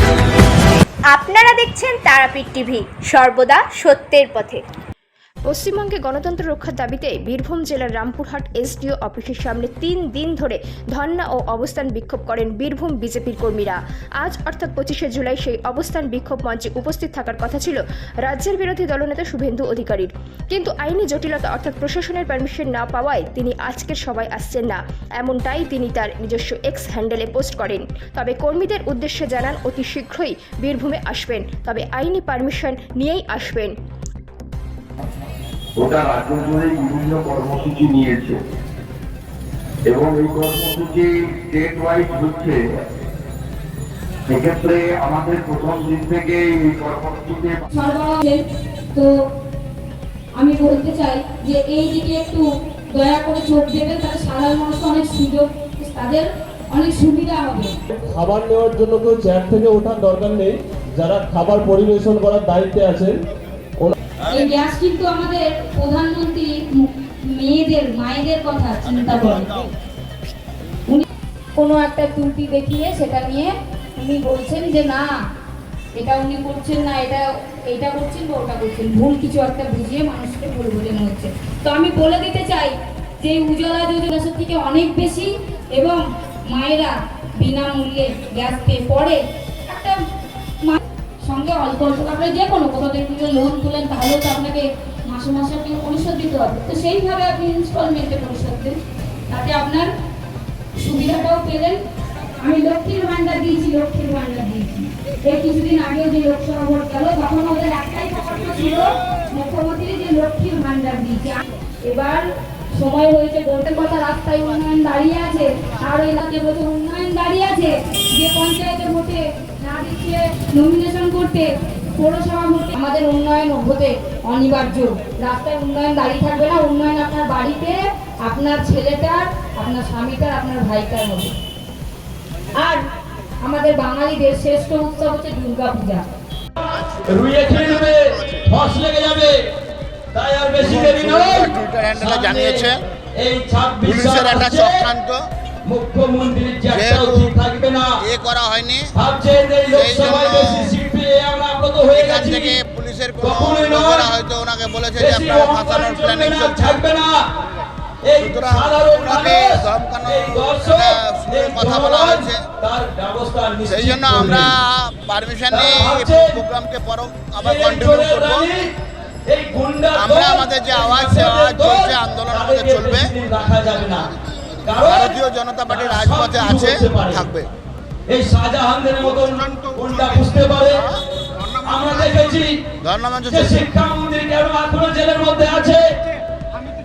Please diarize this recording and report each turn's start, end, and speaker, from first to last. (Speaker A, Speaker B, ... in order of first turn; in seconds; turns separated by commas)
Speaker A: 1.1-4.6, Speaker B: 5.5-33.7, Speaker C: 35.8-38.4, Speaker C: 39.9-42.6, Speaker C: 44.3-47.6, Speaker D: 47.7-49.1, Speaker D: 50.4-57.8, Speaker E: 57.9-63.2, Speaker D: 64.3-69.7, Speaker D: 71.6-75.1, Speaker D: 76.0-90.0, Speaker D: 90.6-98.8, Speaker D: 99.3-99.9, Speaker D: 100.8-101.8, Speaker D: 102.4-131.3, Speaker D: 132.6-132.8, Speaker D: 133.4-136.1, Speaker F: 137.1-139.4, Speaker F: 140.1-144.8, Speaker G: 140.7-142.8, Speaker G: 143.9-145.2, Speaker F: 145.7-147.9, Speaker G: 146.7-147.3, Speaker G: 148.1-148.9, Speaker F: 148.9-152.6, Speaker G: 149.7-150.7, Speaker G: 151.9-156.8, Speaker F: 153.2-154.1, Speaker F: 155.0-157.2, Speaker F: 158.0-164.5, Speaker G: 158.2-162.4, Speaker G: 163.7-168.5, Speaker F: 165.5-166.4, Speaker F: 167.4-168.7, Speaker F: 169.3-174.1, Speaker G: 170.0-173.1, Speaker F: 174.6-175.2, Speaker G: 174.8-177.5, Speaker F: 175.7-177.3, Speaker F: 178.1-180.9, Speaker F: 181.6-182.6, Speaker G: 182.8-183.6, Speaker F: 183.3-185.9